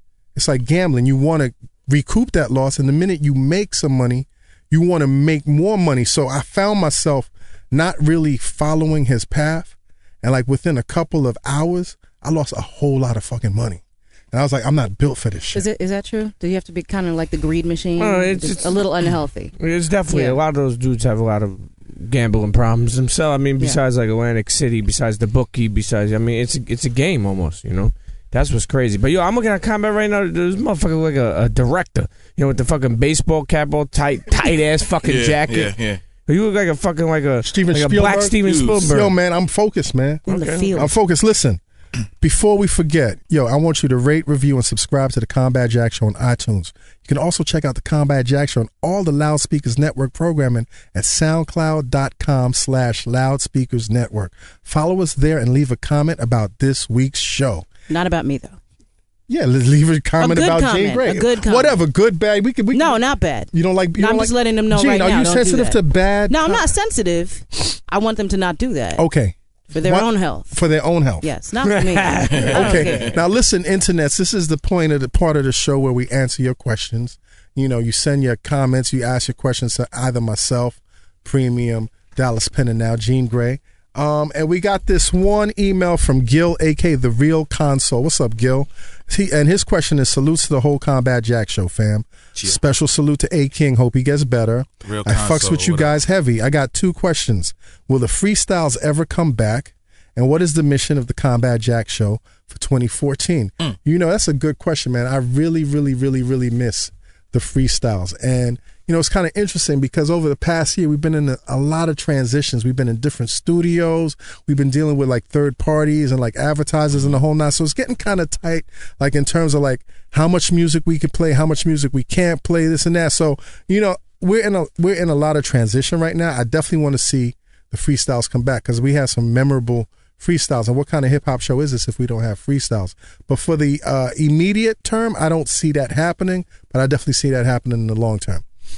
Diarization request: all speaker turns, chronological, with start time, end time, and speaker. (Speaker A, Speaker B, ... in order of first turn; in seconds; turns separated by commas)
Speaker A: 0.3-13.8, Speaker A: 14.3-15.7, Speaker B: 15.5-19.5, Speaker C: 18.0-18.8, Speaker C: 19.6-35.7, Speaker B: 20.1-20.4, Speaker D: 35.0-36.0, Speaker C: 36.2-39.1, Speaker A: 37.4-41.6, Speaker D: 38.4-38.9, Speaker C: 40.3-40.7, Speaker B: 40.3-40.9, Speaker A: 42.2-57.7, Speaker B: 57.9-58.6, Speaker A: 59.3-63.0, Speaker B: 60.2-61.8, Speaker B: 62.7-69.0, Speaker A: 63.5-66.7, Speaker A: 69.0-71.3, Speaker B: 69.7-70.6, Speaker B: 71.2-73.2, Speaker C: 71.6-72.8, Speaker D: 72.3-73.1, Speaker A: 72.3-138.4, Speaker D: 94.8-95.9